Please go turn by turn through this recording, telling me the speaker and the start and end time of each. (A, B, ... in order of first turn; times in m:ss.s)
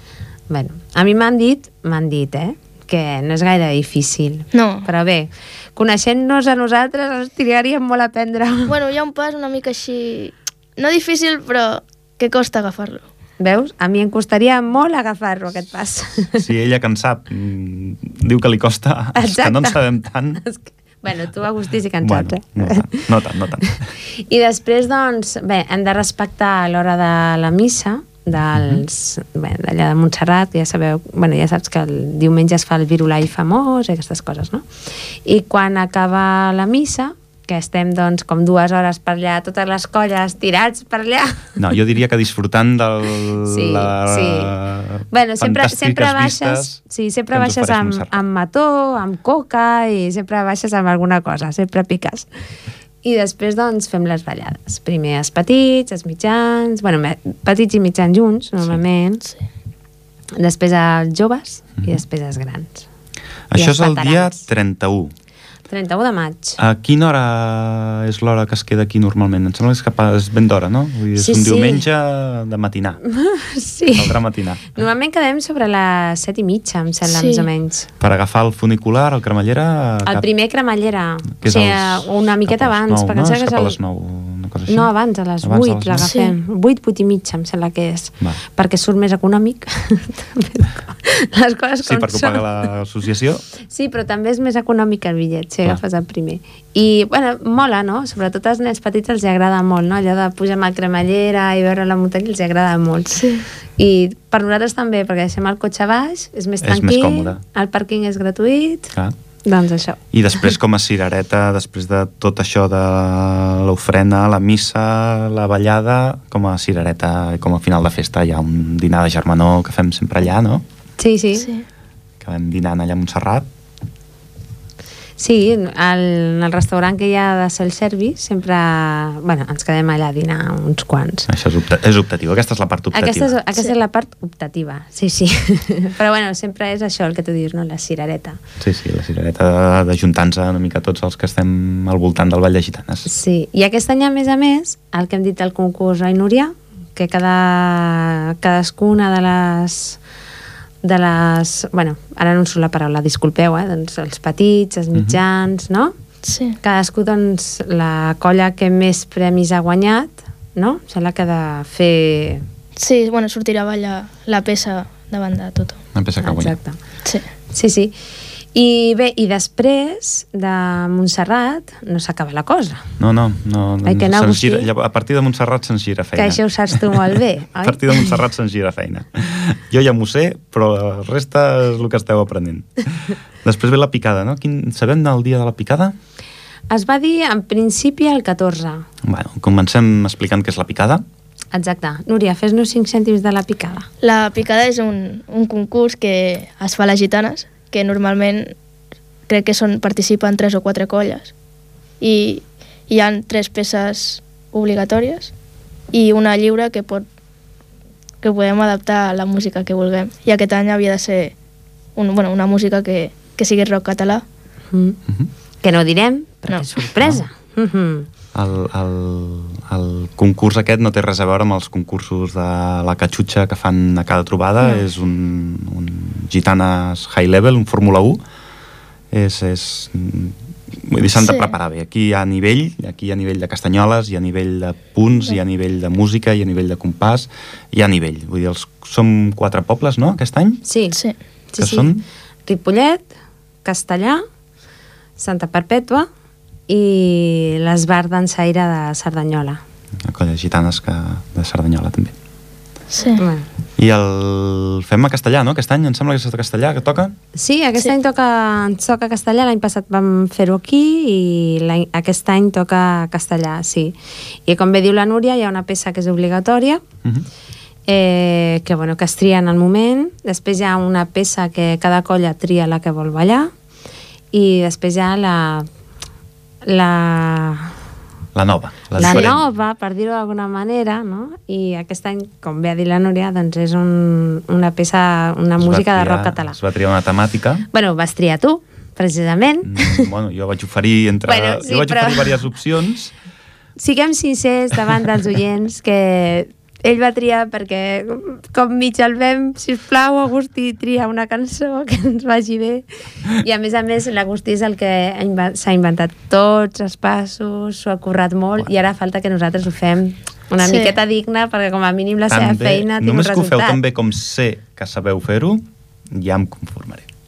0:00.5-0:08.8 A
0:04.5-0:04.9 B
0:08.7-0:13.0 B
0:13.4-0:16.4 A
0:16.3-0:20.4 C
0:19.2-0:19.8 A
0:20.4-0:23.1 A
0:22.0-0:23.8 C
0:24.1-0:34.7 A
0:28.6-0:28.8 C
0:35.2-0:41.6 A
0:41.6-0:46.8 C
0:43.4-0:44.6 A
0:45.1-0:52.3 A
0:47.3-0:48.2 C
0:53.0-0:59.3 A
1:00.4-1:02.9 A
1:03.5-1:05.1 C
1:03.6-1:04.4 A
1:05.7-1:06.6 A
1:06.6-1:13.0 C
1:11.2-1:11.8 A
1:13.0-1:14.2 A
1:13.9-1:14.7 C
1:14.8-1:17.9 A
1:17.1-1:17.5 B
1:18.0-1:20.3 C
1:20.0-1:23.8 A
1:21.4-1:24.9 C
1:24.7-1:32.4 A
1:25.4-1:26.1 C
1:26.0-1:26.3 B
1:31.8-1:33.4 C
1:33.7-1:50.0 A
1:43.2-1:43.4 B
1:46.6-1:47.4 C
1:50.1-2:00.6 C
2:01.0-2:01.5 A
2:01.4-2:01.6 B
2:02.2-2:03.5 C
2:05.2-2:11.3 A
2:11.3-2:13.4 C
2:12.9-2:18.4 A
2:18.6-2:23.1 C
2:23.1-2:30.0 A
2:30.8-2:36.0 A
2:34.9-2:35.2 C
2:36.2-2:36.6 B
2:36.6-2:42.4 A
2:42.8-2:45.8 B
2:45.9-2:46.6 C
2:46.2-2:46.8 A
2:47.5-2:47.9 A
2:48.5-2:52.9 A
2:53.0-3:05.9 C
2:53.8-2:54.7 A
2:56.2-2:58.2 A
3:06.7-3:08.9 A
3:09.0-3:11.0 C
3:11.5-3:13.9 A
3:14.0-3:18.5 B
3:19.3-3:21.3 B
3:22.0-3:25.3 B
3:25.9-3:27.0 B
3:28.2-3:31.3 B
3:32.0-3:34.2 B
3:34.7-3:35.0 A
3:35.6-3:38.1 A
3:38.3-3:48.2 C
3:49.1-4:00.6 C
3:51.2-3:51.5 B
4:00.6-4:01.0 A
4:01.5-4:01.9 A
4:01.6-4:02.0 C
4:02.5-4:03.1 A
4:03.6-4:04.2 A
4:05.2-4:06.1 A
4:06.7-4:09.6 A
4:10.0-4:12.2 C
4:12.9-4:13.2 B
4:13.2-4:13.5 A
4:13.8-4:17.2 C
4:17.4-4:24.0 A
4:24.5-4:26.8 A
4:27.9-4:33.5 A
4:34.3-4:35.7 A
4:36.6-4:37.8 A
4:38.4-4:39.4 C
4:39.0-4:46.6 A
4:45.6-4:47.7 C
4:47.7-4:50.1 A
4:49.6-4:53.1 C
4:51.3-4:52.4 A
4:53.8-5:13.8 A
5:10.6-5:10.9 B
5:12.3-5:17.1 C